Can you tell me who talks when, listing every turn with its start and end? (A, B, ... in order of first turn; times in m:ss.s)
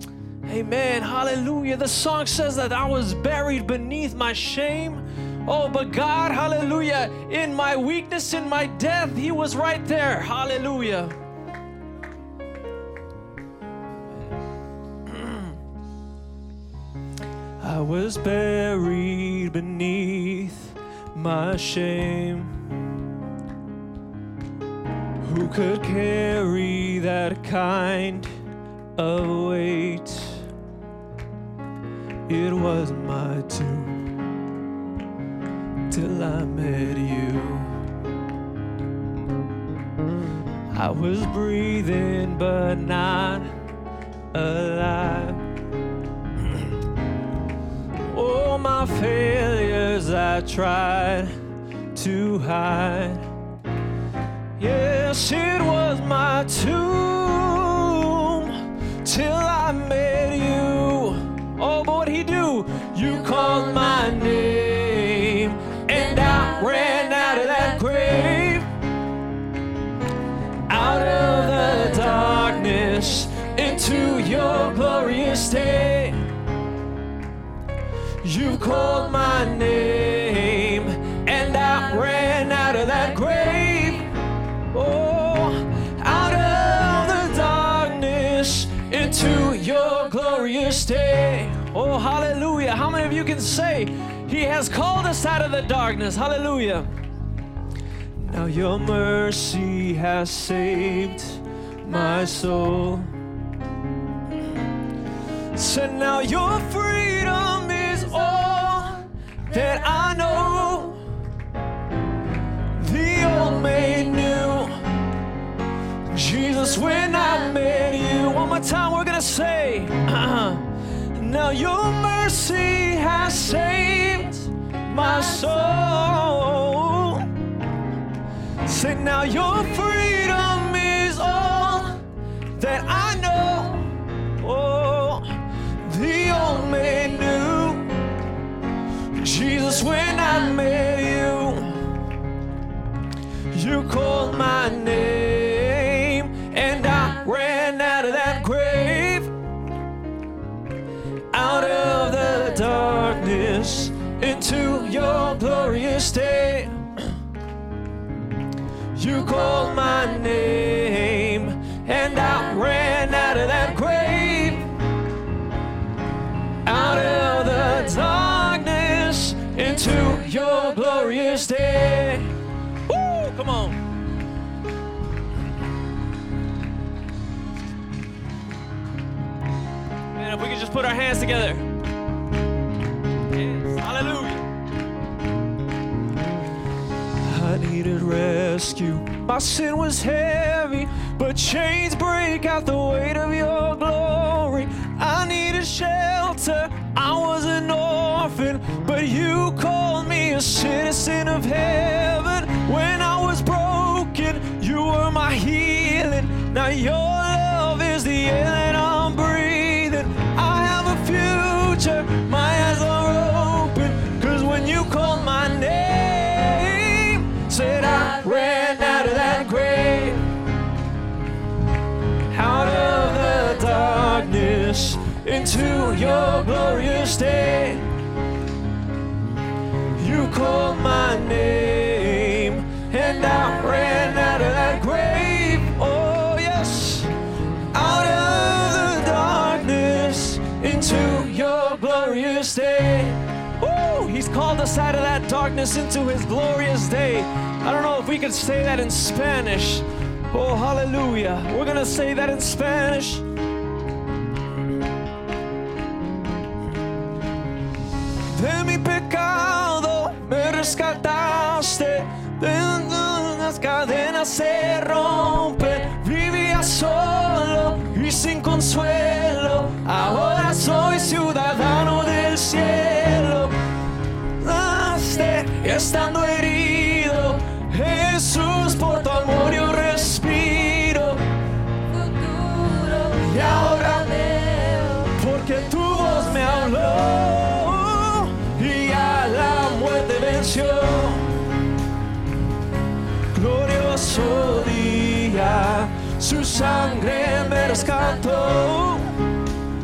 0:00.4-0:11.2 A
0:15.0-0:15.6 A
0:17.6-0:22.6 A
0:25.2-0:28.3 A
0:29.0-0:30.5 A
0:32.3-0:34.0 A
0:35.9-0:37.7 A
0:40.7-0:43.5 A
0:44.3-0:45.4 A
0:46.5-0:46.7 A
0:48.0-0:51.3 A
0:51.9-0:53.2 A
0:54.6-1:08.7 A
1:10.7-1:16.3 A
1:18.2-1:24.1 A
1:24.7-1:36.9 A
1:38.2-1:43.1 A
1:45.5-1:51.0 A
1:52.7-1:54.9 A
1:56.1-2:07.3 A
2:08.6-2:15.3 A
2:15.8-2:17.9 A
2:19.1-2:21.9 A
2:23.5-2:29.3 A
2:31.3-2:36.9 A
2:38.9-2:44.8 A
2:46.6-2:52.4 A
2:52.9-2:53.8 A
3:00.1-3:01.7 A
3:03.3-3:04.5 A
3:07.2-3:40.3 A
3:42.3-3:47.9 A
3:50.0-3:57.1 A
3:57.7-4:13.3 A
4:18.3-4:33.6 A
4:34.4-4:41.2 A
4:42.2-4:51.4 A
4:53.3-4:59.1 A